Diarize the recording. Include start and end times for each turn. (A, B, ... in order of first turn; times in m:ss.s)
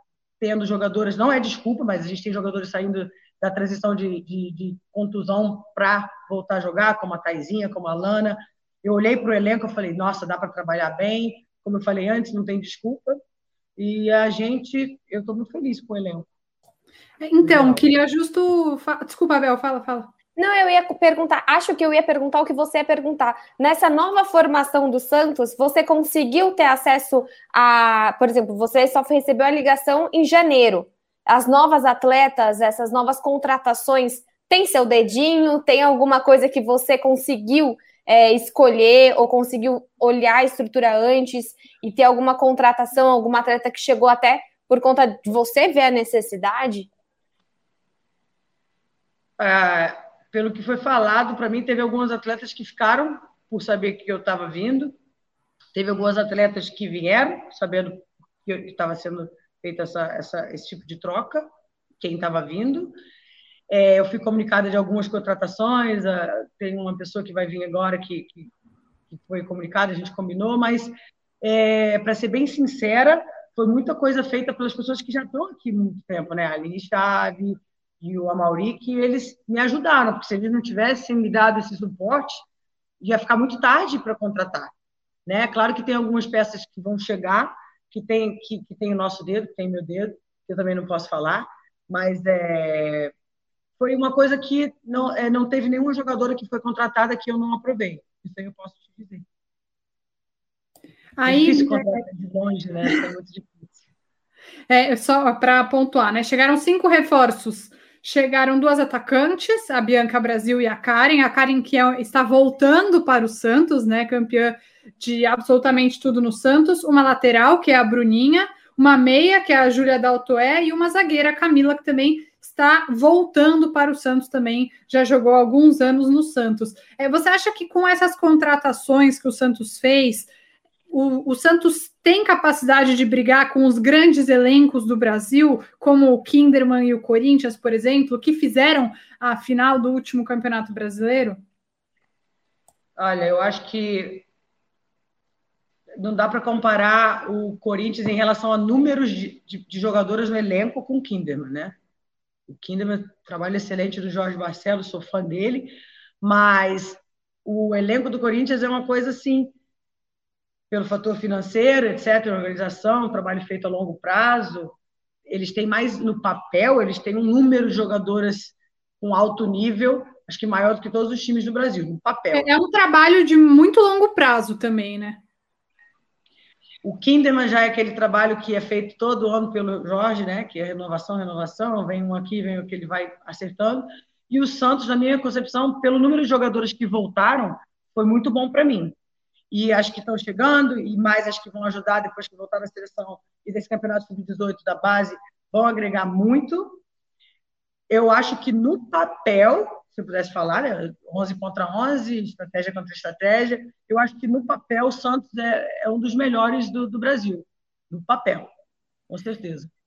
0:00.4-0:13.2 A
0:13.8-0:16.3 A
0:17.2-0:20.1 B
0:17.4-0:17.8 A
0:20.4-0:46.9 C
0:49.4-0:54.9 A
0:55.8-1:01.4 A
1:02.0-1:03.0 A
1:03.7-1:08.5 A
1:09.1-1:22.5 A
1:23.0-1:24.7 A
1:25.3-1:33.1 A
1:33.8-1:39.2 A
1:41.2-1:42.0 B
1:41.2-1:43.8 A
1:44.7-2:10.3 B
2:10.9-2:21.4 B
2:23.0-2:24.3 A
2:26.0-2:31.8 A
2:32.5-2:39.6 A
2:40.7-2:52.5 A
2:52.3-2:55.2 B
2:56.8-3:09.0 A
3:09.5-3:16.8 A
3:17.9-3:28.5 A
3:29.1-3:29.7 A